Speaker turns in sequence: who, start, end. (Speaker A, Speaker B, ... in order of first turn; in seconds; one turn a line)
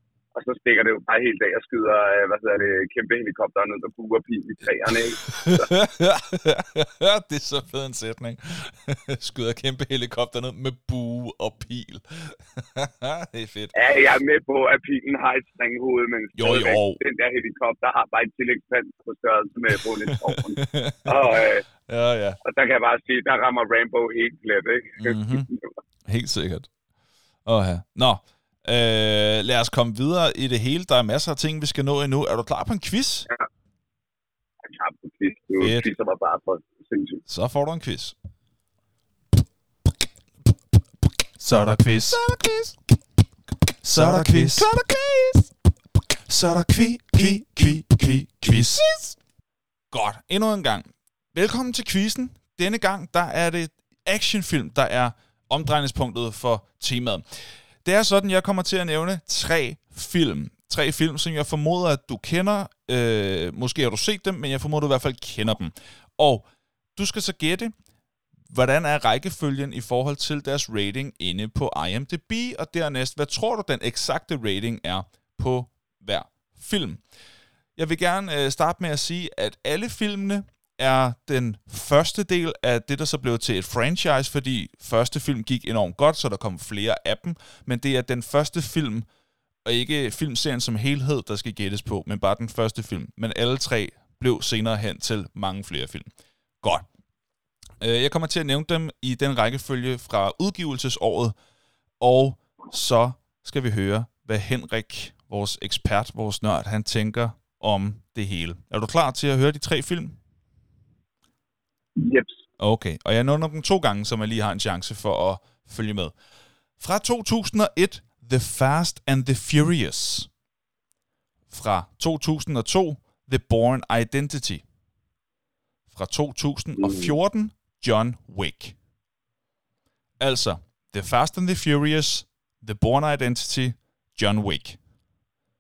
Speaker A: 0.3-5.7
Speaker B: 5.2-13.8
Speaker A: 13.8-21.6
Speaker B: 16.4-17.0
Speaker B: 20.1-22.4
Speaker A: 22.4-25.7
Speaker B: 25.0-25.5
Speaker B: 26.1-26.7
Speaker B: 27.5-33.3
Speaker A: 34.7-37.2
Speaker B: 35.6-35.9
Speaker B: 37.3-38.1
Speaker B: 41.4-42.8
Speaker B: 43.9-45.5
Speaker C: 43.9-44.3
Speaker C: 46.3-48.6
Speaker B: 48.3-49.2
Speaker B: 49.9-67.7
Speaker B: 68.5-77.0
Speaker B: 77.8-89.1
Speaker B: 89.7-96.1
Speaker B: 97.8-101.3
Speaker B: 102.0-110.2
Speaker A: 112.0-112.4
Speaker B: 112.6-116.1
Speaker B: 116.8-120.3
Speaker B: 121.5-124.6
Speaker B: 125.9-128.8
Speaker A: 126.8-127.2
Speaker B: 130.2-134.8